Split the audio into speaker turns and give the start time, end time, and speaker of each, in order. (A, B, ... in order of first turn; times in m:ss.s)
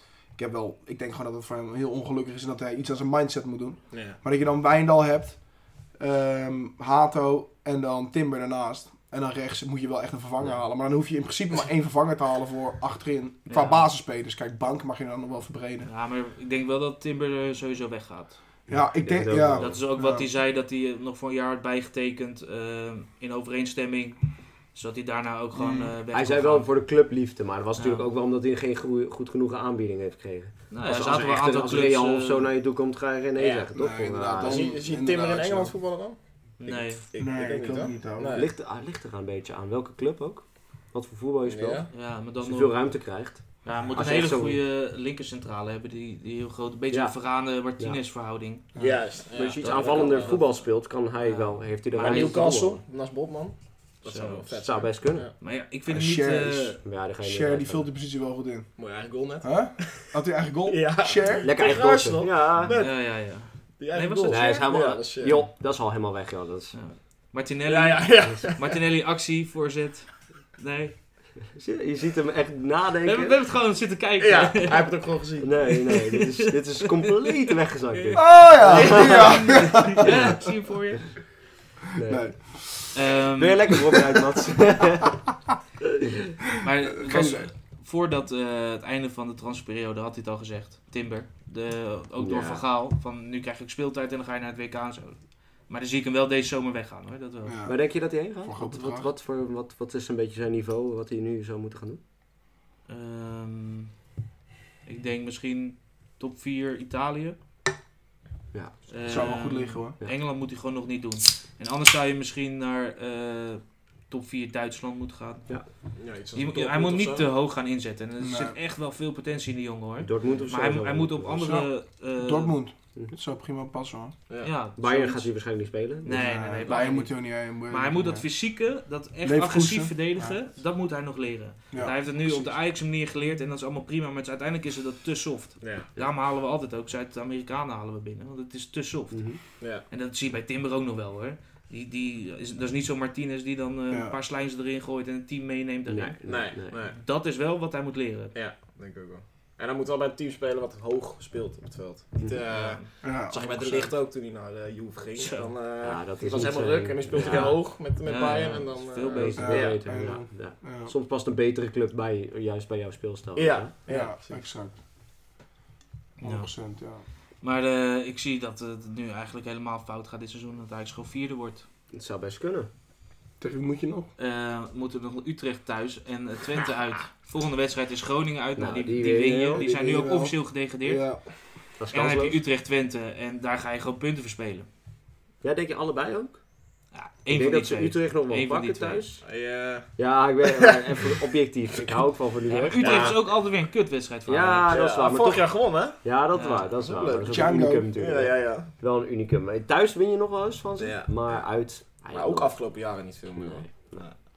0:00.3-0:15.9 A
0:03.9-0:04.2 B
0:13.5-0:13.9 C
0:15.8-0:18.4 C
0:18.7-0:20.3 A
0:18.9-0:19.8 D
0:19.6-0:26.7 C
0:25.5-0:25.9 A
0:26.1-0:34.7 D
0:27.8-0:28.1 C
0:30.7-0:32.5 C
0:33.4-0:33.7 B
0:33.8-0:35.7 A
0:34.4-0:38.5 B
0:36.6-0:37.0 C
0:37.2-0:38.4 A
0:38.3-0:44.6 D
0:41.4-0:41.9 B
0:41.9-0:43.0 C
0:43.6-0:48.7 C
0:48.8-0:50.7 B
0:48.8-0:52.8 D
0:49.6-0:50.6 C
0:51.2-0:52.4 C
0:52.0-0:55.3 B
0:54.1-0:54.5 C
0:54.6-0:55.3 D
0:55.4-0:56.8 C
0:55.9-0:58.7 A
0:56.8-0:57.9 D
0:58.8-1:00.1 B
0:59.4-1:01.5 A
1:00.7-1:05.5 B
1:01.4-1:02.8 D
1:02.7-1:04.7 C
1:04.3-1:06.8 D
1:06.7-1:11.0 C
1:07.7-1:08.8 B
1:11.5-1:13.4 D
1:13.0-1:15.0 C
1:14.2-1:16.0 B
1:15.4-1:19.4 D
1:18.0-1:18.2 C
1:18.2-1:20.4 A
1:18.7-1:19.5 B
1:19.0-1:21.2 C
1:20.0-1:20.4 D
1:22.0-1:22.3 D
1:22.0-1:23.0 A
1:22.9-1:23.7 C
1:23.4-1:25.2 D
1:26.6-1:37.6 C
1:27.0-1:27.5 A
1:32.2-1:32.6 D
1:37.4-1:39.1 A
1:37.7-1:42.0 D
1:42.9-1:44.0 C
1:44.8-1:47.4 C
1:48.5-1:49.3 D
1:48.9-1:55.6 C
1:49.0-1:50.0 A
1:56.0-1:57.3 B
1:56.4-2:02.6 C
1:58.2-1:58.6 A
2:00.0-2:01.5 D
2:01.4-2:01.7 A
2:02.2-2:04.2 A
2:04.4-2:05.3 C
2:04.8-2:06.2 D
2:06.0-2:28.3 C
2:06.1-2:08.3 A
2:09.2-2:10.4 A
2:11.7-2:12.6 A
2:15.6-2:15.9 B
2:19.1-2:19.4 D
2:23.9-2:24.2 A
2:25.9-2:26.7 D
2:26.2-2:27.0 B
2:28.3-2:39.8 B
2:32.5-2:33.9 C
2:33.0-2:33.7 A
2:35.2-2:35.5 C
2:35.8-2:37.6 D
2:38.0-2:39.7 C
2:39.3-2:43.7 D
2:39.4-2:40.9 A
2:43.4-2:44.5 B
2:43.9-2:44.8 A
2:46.2-2:46.5 C
2:46.2-2:47.0 A
2:47.4-2:51.7 C
2:51.9-2:52.7 D
2:53.4-2:54.1 A
2:54.2-3:01.1 C
2:58.6-2:59.6 D
2:59.5-3:01.2 A
3:01.8-3:02.4 D
3:01.9-3:04.7 C
3:05.4-3:06.4 D
3:06.9-3:09.1 C
3:07.3-3:09.2 D
3:09.2-3:11.2 B
3:10.0-3:13.2 D
3:12.5-3:14.8 C
3:12.8-3:13.2 B
3:14.3-3:22.6 D
3:14.7-3:16.0 B
3:16.3-3:16.7 C
3:16.7-3:18.7 B
3:17.3-3:17.9 A
3:20.8-3:21.4 B
3:22.1-3:24.2 B
3:23.3-3:24.0 D